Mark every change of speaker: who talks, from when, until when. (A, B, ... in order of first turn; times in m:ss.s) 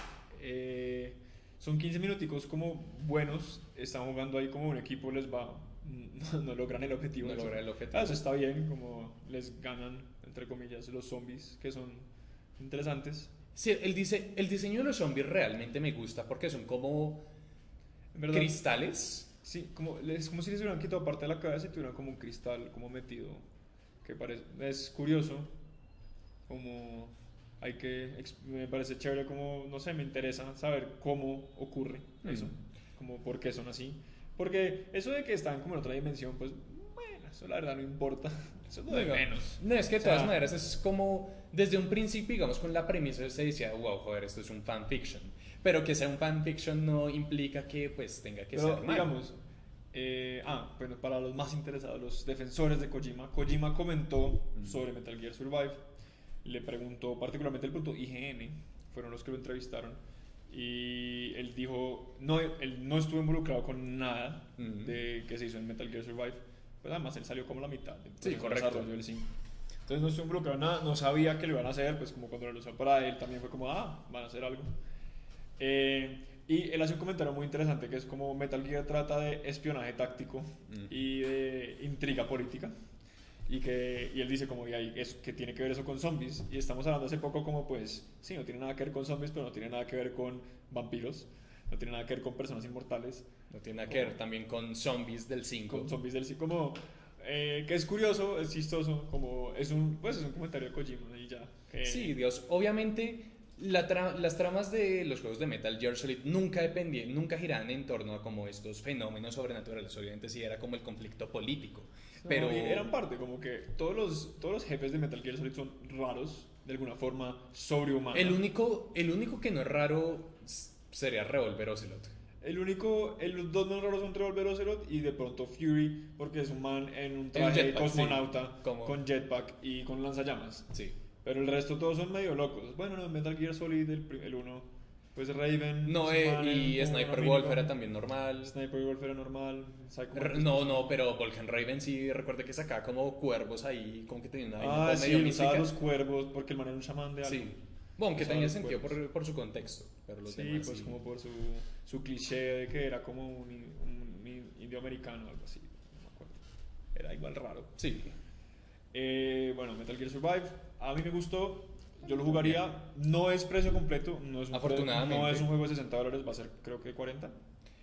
0:00.3-0:12.1 A
0:07.2-0:08.2 B
0:12.6-0:13.3 A
0:13.5-0:17.2 B
0:18.1-0:18.6 A
0:18.3-0:19.3 B
0:19.4-0:23.4 A
0:24.0-0:25.5 A
0:26.5-0:40.4 A
0:32.2-0:32.5 B
0:38.9-0:49.1 B
0:48.5-0:49.4 A
0:49.9-0:55.8 A
0:56.4-1:09.3 A
1:04.6-1:05.0 B
1:08.2-1:08.9 B
1:09.9-1:14.8 A
1:15.6-1:22.7 A
1:23.5-1:33.3 A
1:33.5-1:35.9 B
1:33.9-1:34.2 A
1:35.7-1:42.2 A
1:41.8-1:52.9 B
1:52.2-1:58.4 A
1:58.1-2:02.1 B
2:02.4-2:10.7 A
2:07.3-2:09.0 B
2:11.2-2:17.7 A
2:15.8-2:18.5 B
2:18.4-2:20.8 A
2:20.1-2:25.8 B
2:24.6-2:27.5 A
2:27.2-2:31.0 B
2:28.1-2:29.0 A
2:30.2-2:36.4 A
2:37.0-2:37.8 A
2:37.8-2:38.1 B
2:38.9-2:47.4 A
2:42.3-2:42.6 B
2:44.5-2:45.6 B